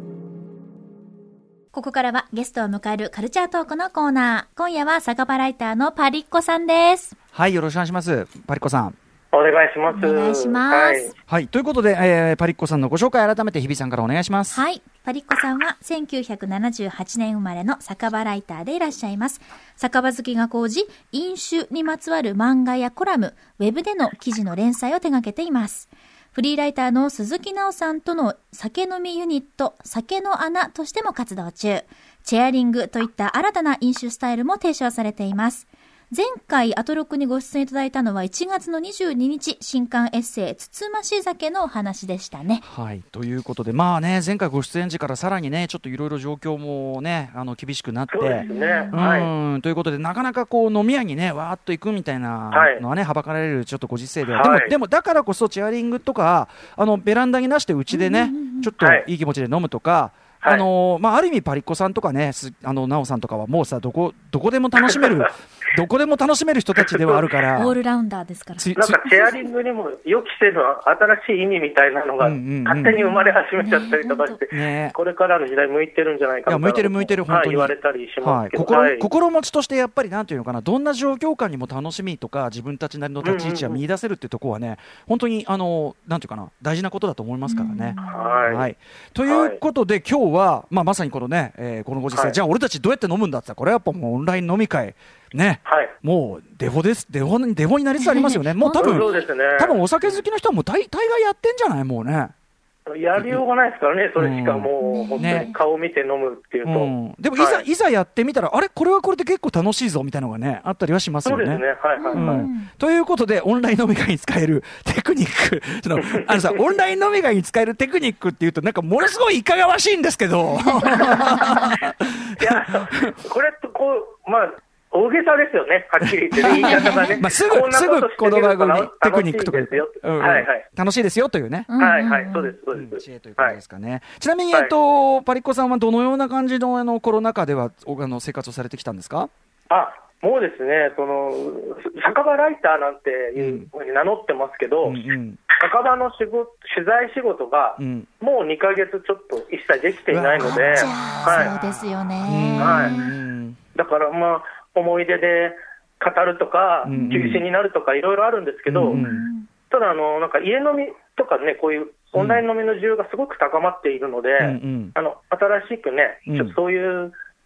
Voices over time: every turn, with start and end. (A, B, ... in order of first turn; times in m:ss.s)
0:01.7-0:07.2 A
0:07.3-0:09.0 B
0:09.3-0:11.1 C
0:09.9-0:11.1 A
0:11.3-0:14.6 B
0:14.5-0:42.6 A
0:42.6-1:07.8 B
0:48.1-0:49.3 C
0:48.4-0:49.0 A
0:52.5-0:52.8 C
0:54.3-0:54.7 C
0:57.9-0:58.7 A
0:58.8-0:59.1 C
1:00.4-1:00.7 C
1:06.8-1:07.3 C
1:07.6-1:08.7 A
1:08.6-1:09.1 B
1:08.8-1:19.1 C
1:12.2-1:13.0 B
1:12.9-1:14.4 A
1:14.5-1:15.0 B
1:16.5-1:42.3 B
1:23.2-1:23.8 C
1:27.5-1:28.4 A
1:28.0-1:28.7 C
1:29.2-1:29.6 C
1:32.1-1:32.4 C
1:35.6-1:36.0 C
1:38.0-1:39.3 A
1:38.8-1:40.2 C
1:42.9-1:47.7 C
1:43.2-1:43.4 B
1:44.2-1:45.5 B
1:44.8-1:45.6 A
1:46.6-2:03.2 B
1:51.2-1:52.5 C
1:52.0-1:52.7 A
1:56.0-1:56.7 C
2:00.6-2:01.7 A
2:02.4-2:10.7 C
2:06.3-2:11.7 B
2:06.5-2:07.2 A
2:11.7-2:12.6 A
2:11.8-2:13.6 C
2:12.7-2:19.3 B
2:19.7-2:25.0 C
2:23.4-2:23.7 B
2:24.8-2:25.4 B
2:25.6-2:31.5 C
2:27.8-2:28.1 B
2:30.1-2:33.6 B
2:30.4-2:33.2 A
2:32.6-2:33.0 C
2:33.8-2:39.0 C
2:36.9-2:37.4 A
2:36.9-2:37.4 B
2:38.7-2:39.3 B
2:38.9-2:39.5 A
2:39.7-2:47.1 C
2:42.2-2:42.4 B
2:44.4-2:45.0 B
2:46.3-2:46.6 B